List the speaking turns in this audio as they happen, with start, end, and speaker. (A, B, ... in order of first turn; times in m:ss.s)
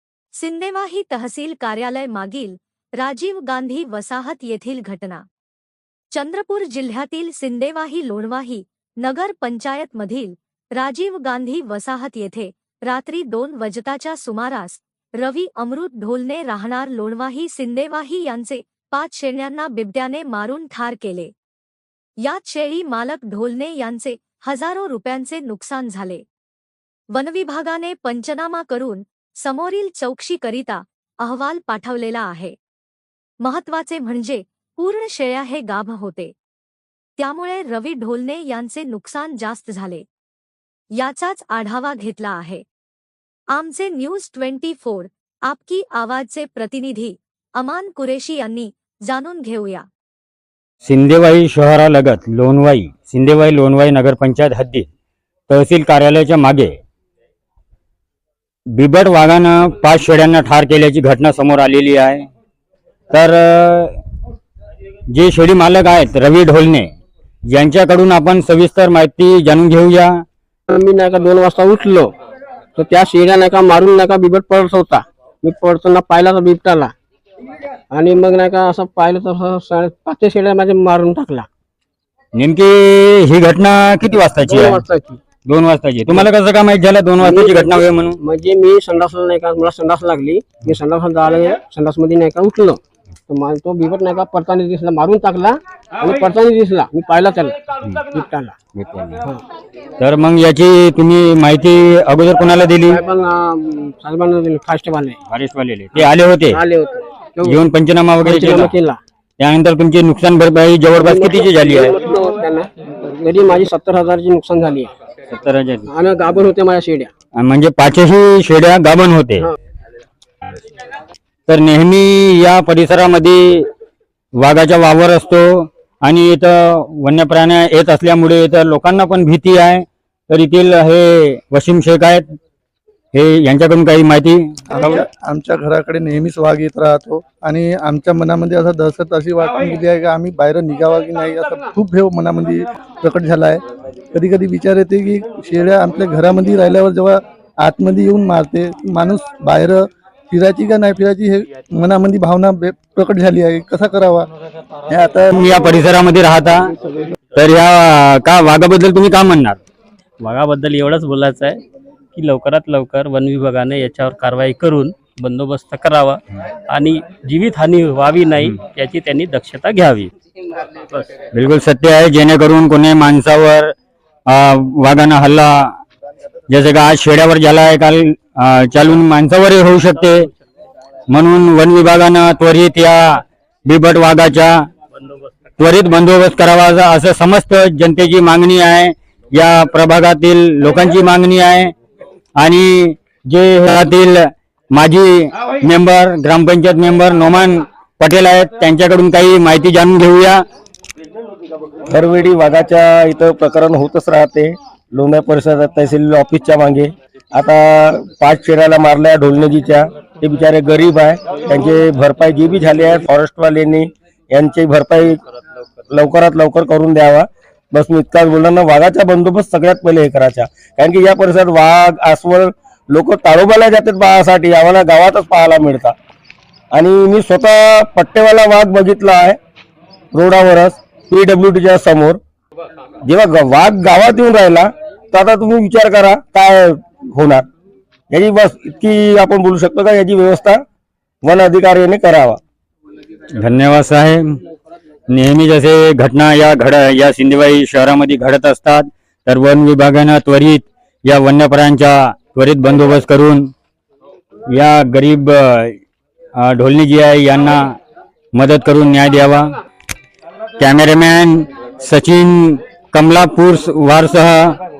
0:00.4-0:05.2 A
0:06.1-0:21.3 A
0:22.2-0:26.2 A
0:27.1-0:32.6 A
0:33.4-0:36.3 A
0:37.2-0:40.0 A
0:41.0-0:42.6 A
0:43.5-0:49.9 A
0:50.8-0:54.9 B
0:55.5-0:56.8 B
0:58.7-1:02.3 B
1:03.1-1:04.0 B
1:05.1-1:06.9 B
1:07.5-1:10.2 B
1:10.7-1:12.1 C
1:12.7-1:16.9 C
1:17.9-1:21.5 C
1:22.3-1:24.8 B
1:24.4-1:25.2 C
1:25.4-1:28.2 B
1:27.2-1:38.6 C
1:38.7-1:39.2 B
1:40.0-1:43.0 B
1:42.9-1:45.2 C
1:45.3-1:46.6 B
1:45.9-1:47.6 C
1:47.4-1:48.7 B
1:48.2-1:49.0 C
1:49.4-1:51.9 B
1:50.9-1:54.9 C
1:55.3-1:55.9 B
1:55.9-1:57.1 C
1:57.3-1:59.5 B
2:01.5-2:03.7 B
2:04.4-2:12.2 B
2:13.1-2:15.0 B
2:14.7-2:23.6 D
2:24.1-2:34.3 D
2:34.9-2:35.3 D
2:35.3-2:36.7 B
2:37.3-2:39.6 B
2:40.2-2:41.6 E
2:42.1-2:50.1 E
2:51.3-2:53.7 B
2:54.3-2:55.8 B
2:56.5-3:00.3 B
3:01.1-3:04.7 B
3:05.6-3:11.7 B
3:12.4-3:20.4 B
3:21.9-3:35.2 F
3:35.9-3:45.9 F
3:46.7-3:49.4 F
3:50.1-3:52.2 F
3:53.0-3:57.4 F
3:58.1-4:00.6 F
4:01.2-4:02.4 F
4:03.4-4:04.4 B
4:05.1-4:13.5 B
4:14.5-4:15.8 B
4:16.4-4:17.8 B
4:18.3-4:19.5 B
4:20.6-4:24.6 B